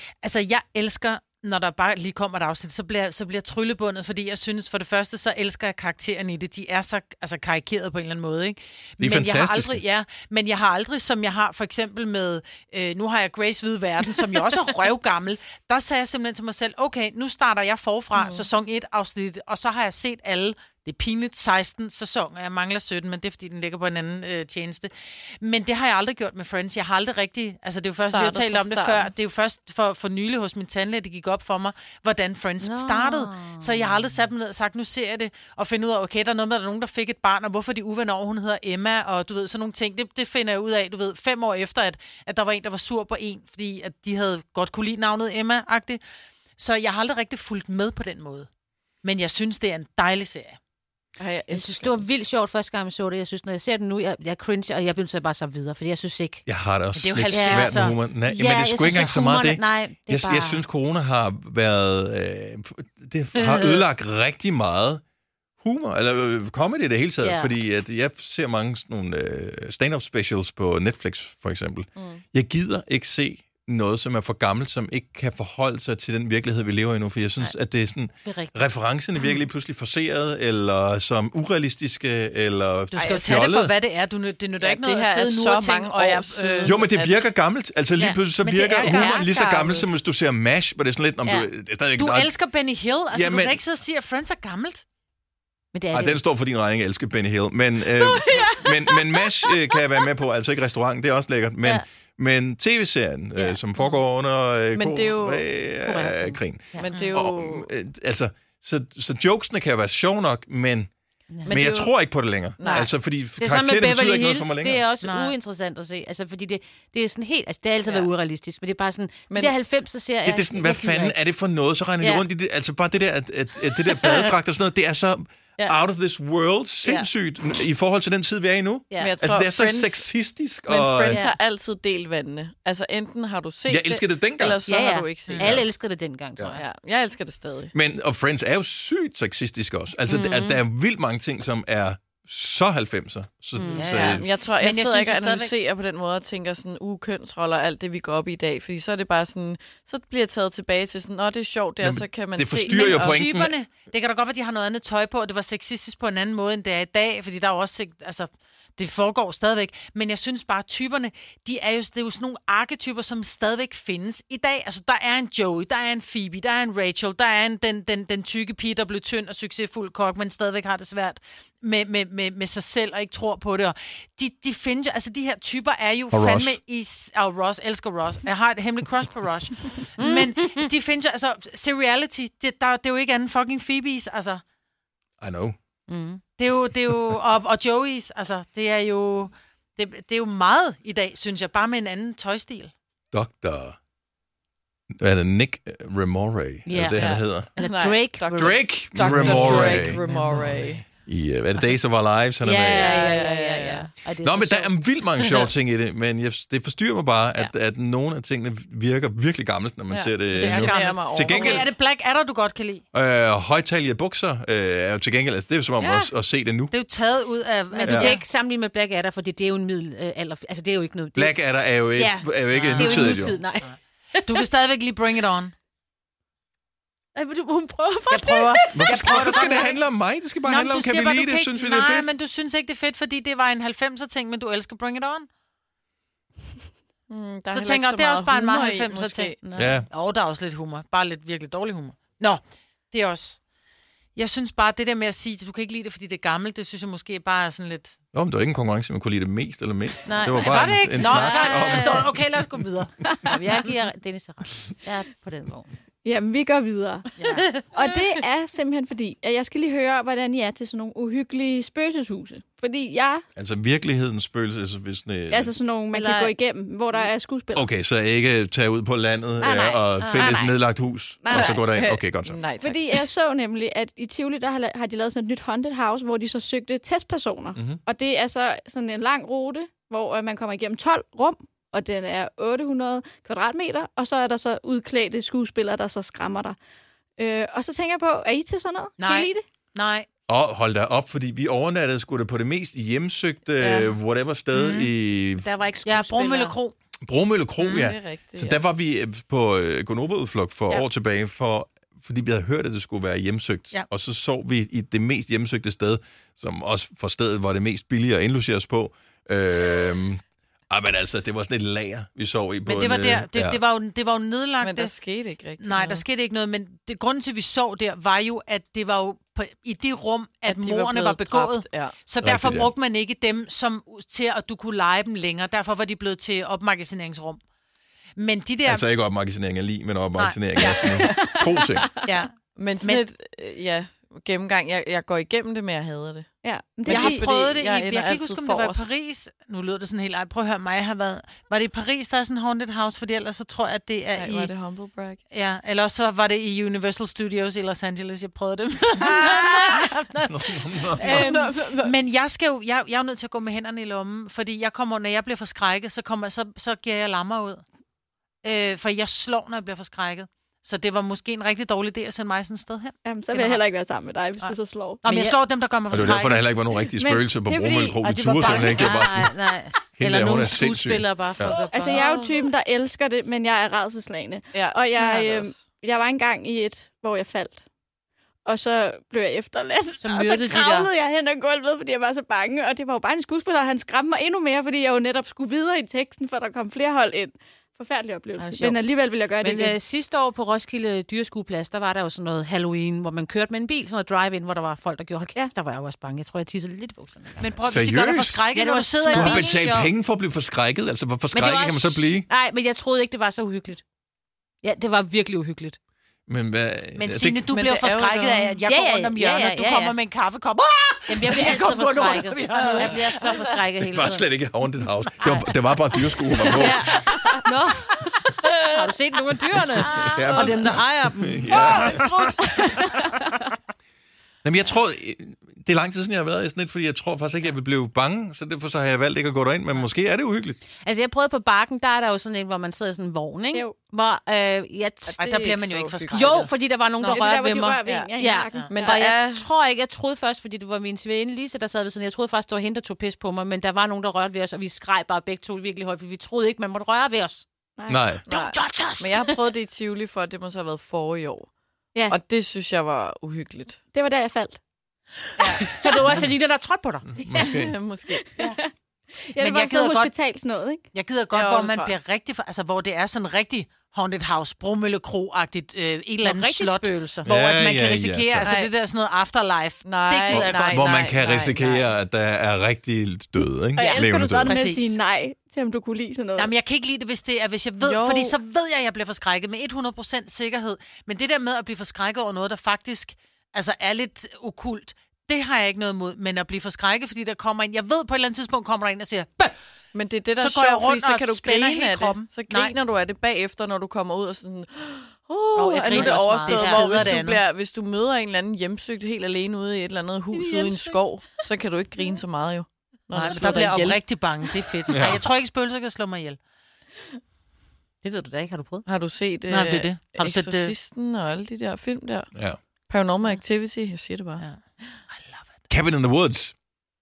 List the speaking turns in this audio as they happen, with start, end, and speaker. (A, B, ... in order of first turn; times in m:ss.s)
0:00.2-0:46.0 A
0:09.0-0:09.8 B
0:18.1-0:18.5 C
0:28.0-0:29.1 C
0:32.6-0:33.9 D
0:46.6-0:48.5 A
0:49.0-0:50.6 A
0:51.2-0:52.0 C
0:51.5-0:56.4 D
0:56.4-1:05.0 B
0:57.0-0:58.0 A
0:57.3-1:00.6 D
1:03.4-1:03.8 D
1:05.6-1:23.7 B
1:07.2-1:07.5 D
1:12.0-1:12.2 C
1:18.2-1:18.6 D
1:22.9-1:23.5 C
1:23.0-1:26.9 A
1:24.6-1:27.3 C
1:26.6-1:32.3 B
1:28.4-1:29.3 A
1:28.9-1:30.0 C
1:31.2-1:31.5 D
1:32.0-1:34.8 A
1:33.1-1:33.6 B
1:35.7-1:36.2 D
1:35.9-1:50.9 B
1:38.0-1:39.7 D
1:43.4-1:44.0 D
1:44.7-1:45.5 C
1:45.8-1:47.1 D
1:46.8-1:47.7 C
1:51.3-1:51.6 D
1:51.4-1:51.9 C
1:51.4-1:54.8 B
1:52.6-1:52.9 C
1:52.6-2:01.2 D
1:55.0-1:55.3 A
2:00.2-2:11.2 B
2:03.9-2:04.4 D
2:06.8-2:07.1 D
2:09.0-2:10.1 C
2:10.6-2:15.5 C
2:13.7-2:14.6 B
2:14.6-2:16.6 D
2:15.2-2:15.6 A
2:15.4-2:15.7 B
2:16.4-2:16.6 B
2:16.6-2:17.7 C
2:17.7-2:24.3 B
2:20.1-2:20.6 D
2:23.6-2:24.0 D
2:23.7-2:25.5 A
2:24.1-2:33.2 C
2:31.8-2:33.5 B
2:32.8-3:04.4 A
2:56.1-2:56.6 B
3:00.0-3:00.7 D
3:05.2-3:05.6 B
3:05.9-3:06.2 D
3:06.4-3:12.7 A
3:13.1-3:13.8 B
3:15.0-3:17.6 B
3:16.7-3:18.6 D
3:17.0-3:20.9 C
3:18.3-3:20.0 B
3:19.0-3:20.4 A
3:20.9-3:23.0 B
3:22.4-3:25.5 D
3:22.7-3:23.9 C
3:24.2-3:31.7 B
3:29.9-3:31.8 C
3:30.4-3:32.8 A
3:32.9-3:36.7 B
3:35.8-3:36.1 C
3:36.7-3:38.2 A
3:37.7-3:43.7 D
3:37.9-3:38.2 B
3:41.2-3:43.4 B
3:42.5-3:45.5 A
3:47.2-3:49.7 D
3:48.1-3:49.8 A
3:48.7-3:52.1 B
3:50.4-3:55.3 A
3:57.1-3:59.4 C
3:57.5-3:59.4 A
3:59.4-3:59.8 D
3:59.6-3:59.9 B
3:59.9-4:03.4 A
4:04.2-4:08.0 A
4:08.1-4:12.2 B
4:10.1-4:12.1 D
4:10.4-4:12.9 A
4:13.2-4:15.7 D
4:16.0-4:23.2 E
4:17.2-4:17.5 A
4:23.4-4:25.6 B
4:25.3-4:27.7 E
4:25.9-4:26.3 D
4:27.5-4:32.4 B
4:29.4-4:30.5 D
4:31.2-4:31.6 E
4:31.3-4:33.0 C
4:32.6-4:46.6 E
4:47.2-4:49.4 E
4:49.0-4:50.1 A
4:50.3-4:55.4 B
4:53.6-4:53.9 A
4:54.6-4:54.9 A
4:55.4-4:56.6 D
4:55.4-4:56.7 A
4:57.0-5:13.6 B
4:57.6-4:57.9 A
4:57.8-4:58.6 C
5:12.7-5:14.9 A
5:14.6-5:16.0 C
5:15.6-5:27.4 A
5:20.4-5:22.0 C
5:22.2-5:22.7 B
5:28.2-5:28.9 A
5:28.7-5:31.9 B
5:30.2-5:31.2 A
5:30.6-5:31.3 C
5:31.2-5:31.9 E
5:32.0-5:33.0 A
5:32.6-5:36.3 C
5:36.4-5:37.3 E
5:36.9-5:38.9 C
5:36.9-5:44.5 A
5:44.2-5:45.2 C
5:45.3-5:57.6 A
5:49.1-5:49.9 C
5:50.3-5:51.2 B
5:51.0-5:51.9 C
5:58.4-6:03.6 A
6:03.0-6:05.0 E
6:04.4-6:06.5 A
6:05.0-6:05.4 D
6:05.9-6:09.3 B
6:06.9-6:08.8 E
6:08.0-6:09.0 A
6:08.4-6:12.0 D
6:10.0-6:11.6 B
6:11.5-6:17.7 E
6:11.9-6:12.4 A
6:14.5-6:15.6 C
6:18.4-6:29.8 E
6:20.0-6:20.9 D
6:28.4-6:28.8 D
6:29.4-6:37.4 D
6:37.4-6:39.5 A
6:37.6-6:38.5 B
6:38.5-6:39.9 D
6:39.1-6:42.3 B
6:41.3-6:43.8 D
6:44.6-6:45.8 D
6:46.3-6:47.4 B
6:47.0-6:53.5 A
6:47.4-6:48.6 C
6:48.6-6:50.0 D
6:51.1-6:54.2 D
6:53.8-6:57.1 B
6:55.2-6:55.5 A
6:56.5-6:58.0 D
6:58.6-7:03.3 D
6:59.7-7:02.8 A
6:59.8-7:02.1 B
7:04.4-7:10.6 B
7:10.8-7:15.5 D
7:15.1-7:16.5 C
7:15.2-7:16.5 A
7:16.1-7:27.4 D
7:17.0-7:18.7 E
7:17.8-7:18.1 C
7:18.5-7:18.8 A
7:18.7-7:19.5 C
7:27.8-7:28.1 E
7:27.9-7:28.3 B
7:28.3-7:31.5 C
7:28.3-7:29.4 D
7:32.1-7:33.8 C
7:33.9-7:34.6 E
7:35.4-7:35.8 C
7:35.6-7:37.1 D
7:37.1-7:37.8 B
7:37.3-7:37.6 E
7:37.5-7:38.3 C
7:38.2-7:38.7 E
7:39.3-7:40.8 E
7:39.4-7:40.1 A
7:40.9-7:51.8 A
7:41.3-7:42.0 C
7:46.2-7:47.3 D
7:47.3-7:48.6 B
7:48.4-7:48.7 C
7:49.8-7:51.7 C
7:50.3-7:54.6 B
7:53.8-7:55.0 A
7:53.8-7:56.5 E
7:56.4-8:09.6 A
7:57.8-7:58.4 C
8:09.9-8:24.0 C
8:10.4-8:12.8 A
8:15.6-8:17.4 A
8:15.9-8:17.0 D
8:20.3-8:21.0 D
8:23.1-8:26.4 A
8:24.9-8:25.2 B
8:28.0-8:28.8 D
8:28.9-8:32.3 C
8:29.5-8:30.7 A
8:32.9-8:34.4 C
8:35.1-8:35.6 A
8:35.7-8:36.5 B